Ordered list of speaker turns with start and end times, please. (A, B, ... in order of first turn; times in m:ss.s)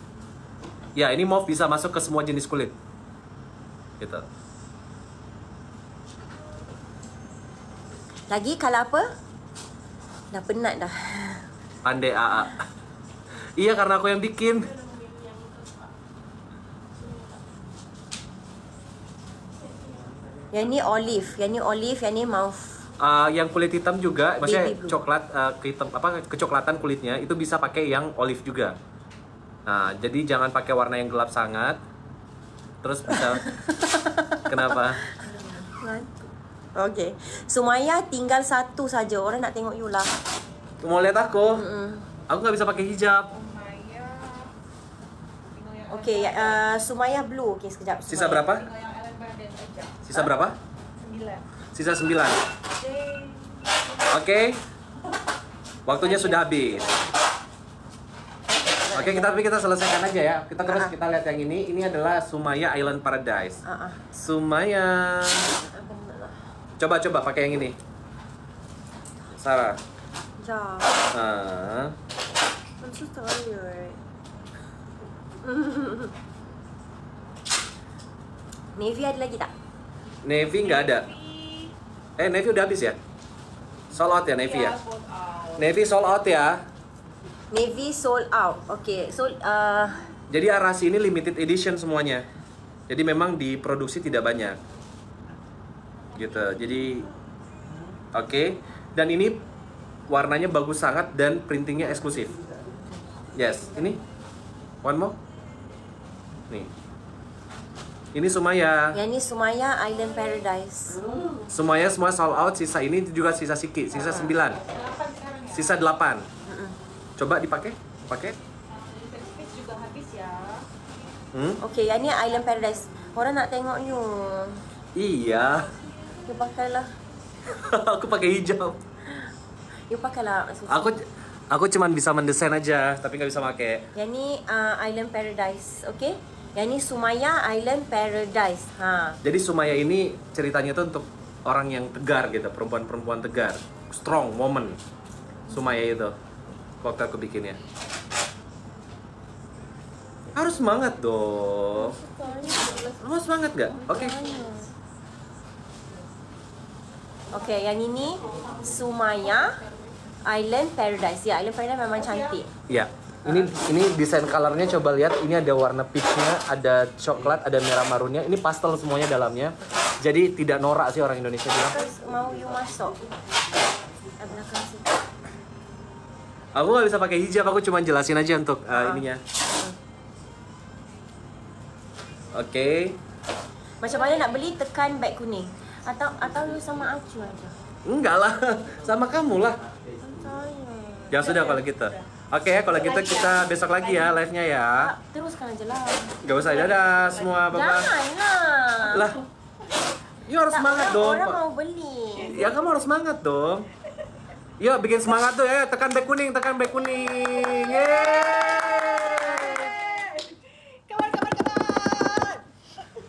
0:01.0-0:02.7 A
0:08.3-0:09.1 B
0:10.3-0:11.4 B
0:11.8-0:12.6 A
0:13.6-0:14.7 A
0:20.5-0:22.8 B
0:23.0-0:28.8 A
0:24.4-0:25.0 B
0:29.7-0:31.8 A
0:32.8-0:33.5 A
0:33.1-0:34.8 B
0:34.5-0:35.0 A
0:35.6-0:36.1 B
0:36.8-0:40.1 B
0:40.8-0:41.6 A
0:41.5-0:42.1 B
0:42.3-0:43.3 A
0:43.3-0:44.5 C
0:45.4-0:46.6 C
0:45.9-0:48.5 B
0:48.1-0:48.6 A
0:48.4-0:50.3 C
0:50.1-0:50.6 A
0:51.0-0:51.4 C
0:51.7-0:52.4 A
0:52.8-0:54.0 C
0:54.1-0:54.6 A
0:55.9-0:56.9 A
0:55.9-0:57.1 C
0:58.7-0:59.4 B
0:58.9-1:03.6 A
1:00.7-1:00.9 B
1:03.6-1:04.1 B
1:04.2-1:05.5 A
1:05.6-1:06.4 B
1:06.8-1:07.8 A
1:09.4-1:09.8 A
1:10.4-1:11.0 B
1:11.1-1:11.9 A
1:12.8-1:14.0 B
1:15.4-1:16.1 B
1:18.8-1:19.5 B
1:20.2-1:21.1 A
1:20.4-1:21.7 C
1:22.2-1:23.0 A
1:23.9-1:24.8 A
1:24.4-1:25.7 C
1:25.6-1:26.6 A
1:27.5-1:30.0 B
1:30.3-1:32.3 A
1:32.9-1:34.6 A
1:36.2-1:37.1 A
1:38.1-1:39.4 A
1:40.1-1:42.3 A
1:43.4-1:44.0 A
1:44.8-1:45.2 A
1:48.1-1:49.0 A
1:48.9-1:51.0 B
1:51.5-1:54.6 A
1:53.9-1:55.9 C
1:54.0-1:54.3 B
1:55.5-1:56.3 A
1:56.4-1:56.8 B
1:57.2-1:58.4 A
1:58.7-2:00.7 C
2:01.3-2:01.6 A
2:01.6-2:04.6 B
2:05.0-2:05.7 A
2:06.3-2:06.9 B
2:07.5-2:08.8 A
2:09.9-2:11.0 B
2:10.7-2:13.9 A
2:14.0-2:19.2 B
2:19.2-2:24.8 A
2:25.5-2:26.2 A
2:26.8-2:27.6 A
2:30.3-2:32.0 A
2:31.8-2:33.0 B
2:33.0-2:34.2 A
2:33.8-2:34.7 B
2:37.3-2:39.6 B
2:38.2-2:39.8 C
2:40.2-2:42.5 B
2:42.0-2:42.4 C
2:42.7-2:51.8 A
2:51.6-2:53.0 B
2:54.2-2:54.9 B
2:56.6-2:59.2 A
2:58.7-2:59.0 B
3:02.3-3:03.0 A
3:03.8-3:07.6 B
3:07.8-3:09.6 A
3:10.0-3:11.4 B
3:11.1-3:14.9 A
3:11.2-3:12.1 C
3:12.8-3:14.2 C
3:14.8-3:16.2 B
3:16.2-3:17.9 A
3:16.3-3:17.5 C
3:17.5-3:19.1 B
3:18.9-3:19.2 A
3:20.3-3:21.4 A
3:20.5-3:22.4 B
3:22.2-3:22.7 C
3:22.2-3:23.7 A
3:24.6-3:29.7 A
3:27.3-3:32.4 C